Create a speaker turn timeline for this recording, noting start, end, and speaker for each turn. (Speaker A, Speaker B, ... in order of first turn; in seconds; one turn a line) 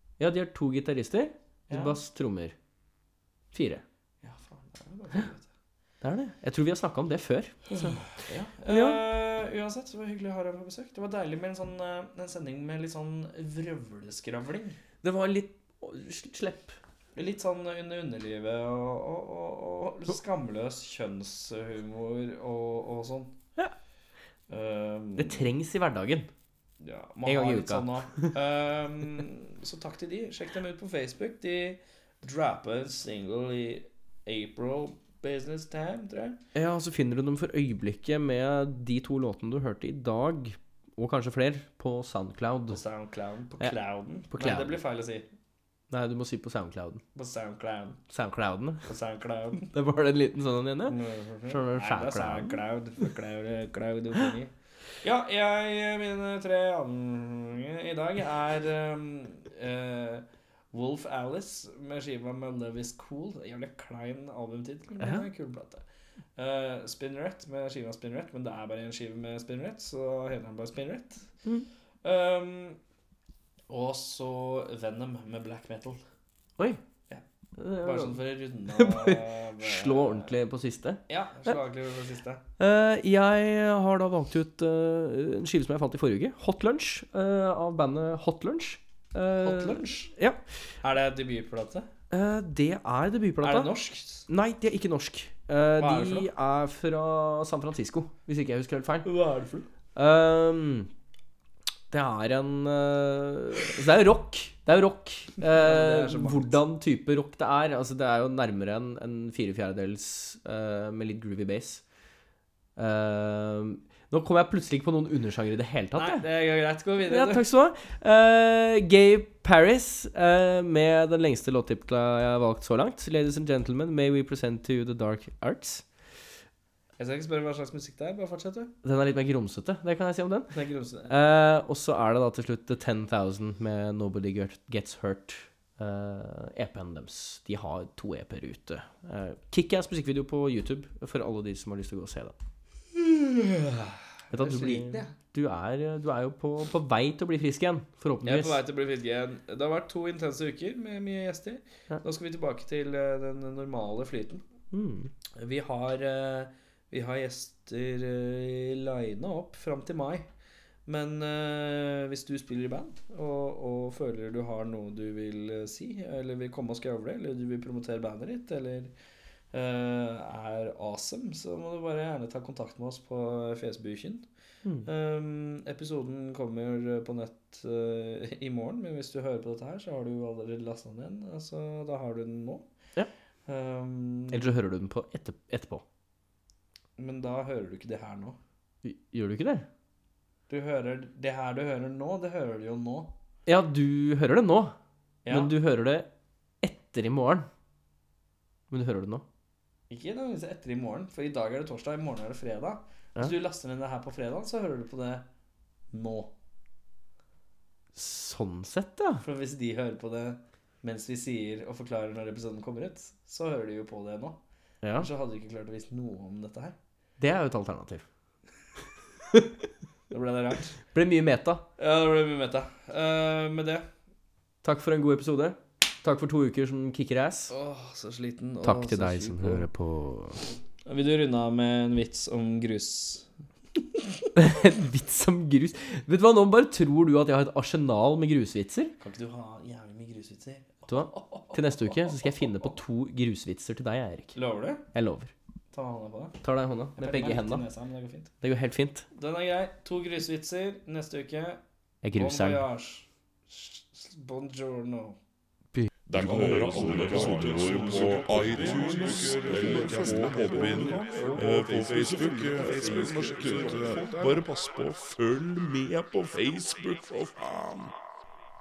Speaker A: 0.2-2.5
Speaker B: 1.7-2.0
Speaker A: 3.5-3.8
Speaker B: 4.2-5.5
Speaker A: 6.0-8.0
Speaker B: 8.1-14.8
Speaker A: 8.7-9.0
Speaker A: 15.0-16.8
Speaker B: 17.1-23.4
Speaker B: 24.5-25.5
Speaker A: 25.2-26.3
Speaker B: 26.8-36.4
Speaker A: 27.2-28.3
Speaker A: 36.5-42.8
Speaker B: 42.7-45.3
Speaker A: 43.6-44.8
Speaker A: 45.9-47.0
Speaker B: 47.1-48.0
Speaker A: 48.1-48.8
Speaker B: 48.9-49.7
Speaker A: 49.6-52.6
Speaker B: 50.9-65.8
Speaker A: 65.0-65.3
Speaker B: 66.3-71.3
Speaker B: 72.0-72.8
Speaker B: 73.7-76.0
Speaker A: 77.6-81.5
Speaker B: 77.8-80.3
Speaker B: 81.1-82.4
Speaker A: 82.6-90.4
Speaker B: 89.4-90.1
Speaker B: 90.8-91.9
Speaker A: 92.1-93.7
Speaker B: 93.4-94.3
Speaker A: 94.3-99.1
Speaker B: 95.8-96.3
Speaker B: 99.0-99.7
Speaker A: 99.9-100.9
Speaker A: 101.9-111.8
Speaker B: 105.4-106.5
Speaker A: 112.8-116.3
Speaker B: 115.9-117.5
Speaker A: 117.0-125.9
Speaker B: 127.0-128.7
Speaker A: 128.8-142.3
Speaker B: 130.5-131.1
Speaker B: 142.9-145.1
Speaker A: 144.3-148.6
Speaker B: 148.2-154.4
Speaker A: 154.7-155.1
Speaker B: 155.3-160.3
Speaker B: 160.8-168.9
Speaker B: 169.5-174.2
Speaker B: 174.8-182.7
Speaker B: 183.4-184.5
Speaker A: 184.3-185.8
Speaker B: 187.0-188.4
Speaker A: 188.8-189.7
Speaker B: 190.5-193.1
Speaker A: 193.4-194.7
Speaker B: 195.2-195.5
Speaker A: 195.3-196.1
Speaker A: 196.6-197.5
Speaker A: 198.7-199.2
Speaker B: 199.9-205.2
Speaker B: 205.9-206.3
Speaker A: 207.9-209.2
Speaker B: 209.2-214.4
Speaker A: 214.8-215.1
Speaker B: 214.9-216.8
Speaker A: 217.2-218.0
Speaker B: 220.1-220.7
Speaker A: 220.9-221.6
Speaker B: 221.8-223.9
Speaker A: 224.6-227.5
Speaker B: 227.5-229.7
Speaker A: 228.6-230.4
Speaker B: 230.8-233.3
Speaker B: 233.9-234.2
Speaker A: 234.3-238.9
Speaker B: 239.0-242.8
Speaker A: 240.9-244.4
Speaker B: 244.3-244.8
Speaker A: 244.9-245.3
Speaker B: 245.7-246.4
Speaker A: 246.4-247.7
Speaker B: 246.9-248.3
Speaker A: 248.4-249.1
Speaker B: 249.1-251.6
Speaker A: 252.0-252.7
Speaker B: 252.1-255.2
Speaker C: 256.1-267.9